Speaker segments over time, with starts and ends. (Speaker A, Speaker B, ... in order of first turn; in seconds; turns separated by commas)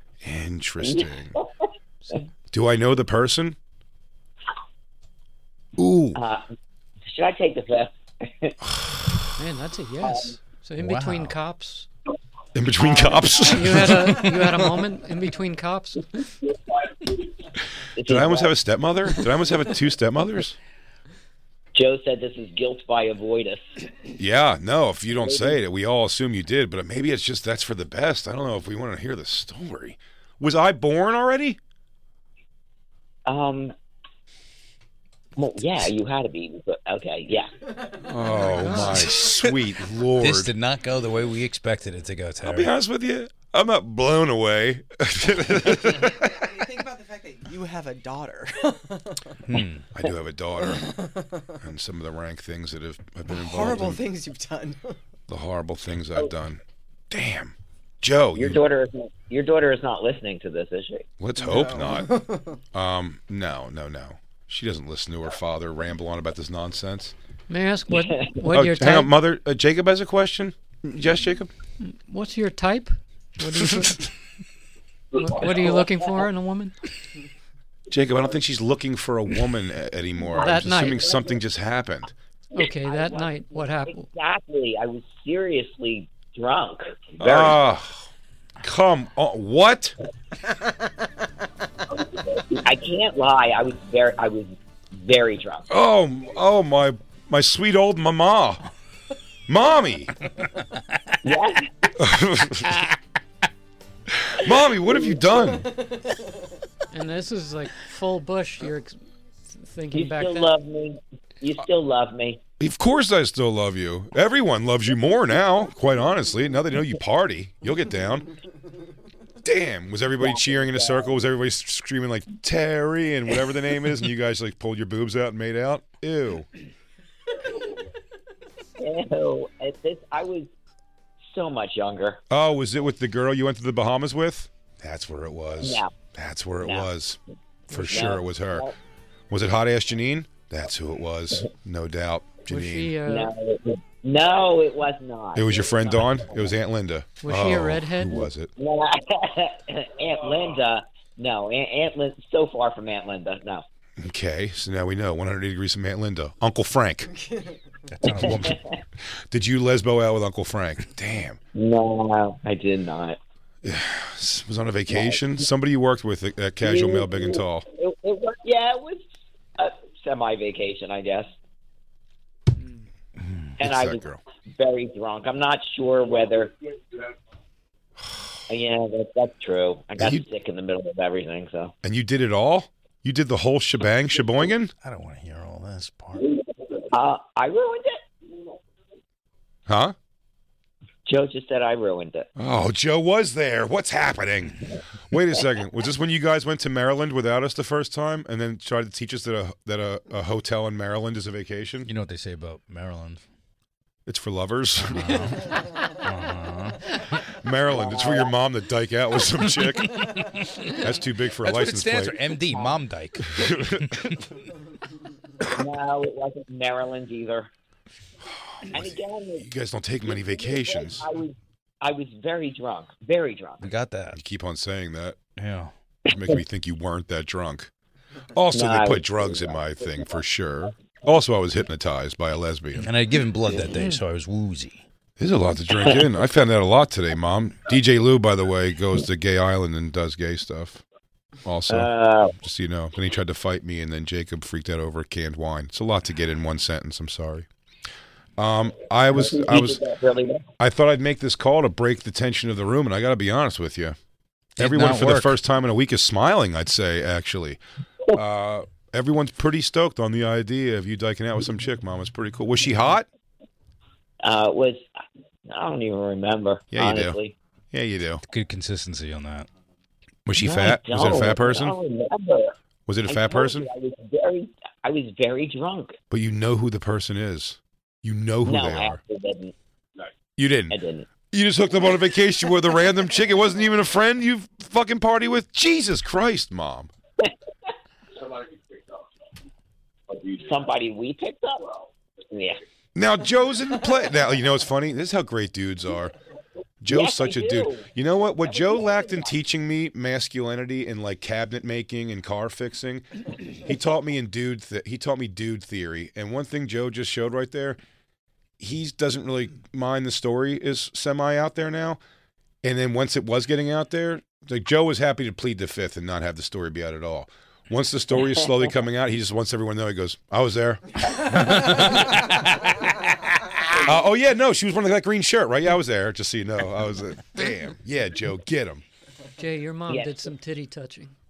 Speaker A: 0.2-1.4, Speaker B: 0.8-1.5, Speaker A: 2.5-3.6, Speaker A: 5.8-6.2, Speaker B: 6.2-6.5, Speaker B: 7.1-8.6, Speaker C: 9.4-11.9, Speaker B: 10.0-10.4, Speaker D: 10.8-11.3, Speaker A: 12.5-14.3, Speaker B: 12.8-13.5, Speaker C: 13.5-16.1, Speaker B: 18.0-18.6, Speaker A: 18.0-20.6, Speaker B: 21.8-23.6, Speaker A: 24.2-31.6, Speaker B: 25.2-25.6, Speaker B: 33.3-33.7, Speaker B: 35.4-37.5, Speaker A: 38.0-40.5, Speaker C: 38.4-39.1, Speaker D: 40.2-42.7, Speaker A: 42.4-46.4, Speaker E: 45.7-49.4, Speaker D: 49.5-49.9, Speaker A: 49.9-51.0, Speaker E: 50.7-51.4, Speaker A: 51.6-54.0, Speaker E: 53.3-55.0, Speaker A: 55.3-56.6, Speaker A: 57.1-58.6, Speaker B: 58.4-61.1, Speaker A: 61.2-62.2, Speaker E: 61.4-62.6, Speaker A: 62.7-67.2, Speaker C: 67.5-69.1, Speaker A: 68.5-71.5, Speaker C: 71.8-74.1, Speaker A: 73.6-73.9, Speaker C: 75.2-76.8, Speaker B: 75.5-75.9, Speaker A: 77.9-82.1, Speaker C: 80.4-81.1, Speaker C: 82.5-84.1, Speaker B: 82.6-87.6, Speaker A: 87.2-88.0, Speaker A: 88.6-90.0, Speaker B: 92.5-95.7, Speaker A: 95.7-98.6, Speaker A: 99.5-100.1, Speaker B: 101.2-101.7, Speaker A: 102.0-102.8, Speaker A: 104.1-105.7, Speaker C: 106.9-109.0, Speaker C: 109.5-110.5, Speaker B: 109.9-112.4, Speaker A: 112.6-118.3, Speaker A: 119.4-126.5, Speaker B: 120.2-121.2, Speaker B: 128.8-130.5, Speaker B: 131.3-132.2, Speaker A: 132.3-137.2, Speaker B: 135.6-135.9, Speaker B: 136.6-136.9, Speaker A: 137.7-138.7, Speaker B: 137.8-138.8, Speaker A: 139.3-143.0, Speaker C: 142.5-143.3, Speaker B: 143.0-146.5, Speaker A: 145.3-148.5, Speaker C: 147.2-148.3, Speaker B: 148.6-153.7, Speaker A: 154.0-157.1, Speaker E: 157.2-157.6, Speaker D: 157.9-158.6, Speaker B: 158.1-158.8, Speaker A: 159.3-161.4, Speaker B: 161.6-163.2, Speaker A: 163.6-167.7, Speaker B: 164.9-165.2, Speaker B: 166.6-169.1, Speaker B: 169.6-171.3, Speaker D: 173.2-173.5, Speaker B: 173.6-174.1, Speaker A: 173.6-174.2, Speaker B: 174.6-176.5, Speaker B: 178.5-181.7, Speaker A: 180.0-180.2, Speaker A: 181.8-184.7, Speaker D: 184.8-186.3, Speaker B: 186.9-188.0, Speaker A: 189.7-189.9, Speaker B: 191.1-192.3, Speaker A: 192.4-194.6, Speaker A: 195.1-201.9, Speaker D: 201.9-203.2, Speaker A: 204.1-205.5, Speaker D: 204.9-207.0, Speaker A: 207.3-212.2, Speaker B: 207.7-208.3, Speaker D: 210.0-210.7, Speaker D: 211.4-214.2, Speaker A: 213.3-214.1, Speaker B: 215.6-217.5, Speaker A: 218.6-221.1, Speaker B: 218.7-219.5, Speaker B: 220.1-223.7, Speaker D: 223.6-224.2, Speaker A: 224.1-225.2, Speaker D: 225.4-225.7, Speaker A: 226.1-227.7, Speaker A: 228.3-232.9, Speaker B: 228.5-230.0, Speaker D: 232.8-234.8, Speaker B: 233.5-233.9, Speaker A: 235.2-240.8, Speaker A: 241.4-247.5, Speaker B: 241.7-242.4, Speaker A: 248.4-249.8, Speaker B: 249.1-250.4, Speaker A: 250.6-254.0, Speaker D: 254.6-255.4, Speaker A: 254.6-257.6, Speaker A: 258.1-263.1, Speaker B: 264.2-264.9, Speaker B: 265.5-267.3, Speaker A: 266.7-267.2, Speaker A: 267.7-268.2, Speaker D: 268.2-269.5, Speaker A: 270.3-271.8, Speaker B: 270.4-272.6, Speaker A: 272.9-273.7, Speaker B: 273.1-275.9, Speaker A: 276.1-279.0, Speaker B: 278.4-279.5, Speaker A: 280.4-286.9, Speaker B: 280.7-281.1, Speaker B: 290.2-292.6, Speaker A: 292.9-296.1, Speaker A: 296.8-307.8, Speaker B: 296.9-299.3, Speaker A: 308.6-312.0, Speaker A: 312.6-322.7, Speaker A: 323.9-328.8, Speaker C: 329.4-331.1, Speaker B: 329.9-330.3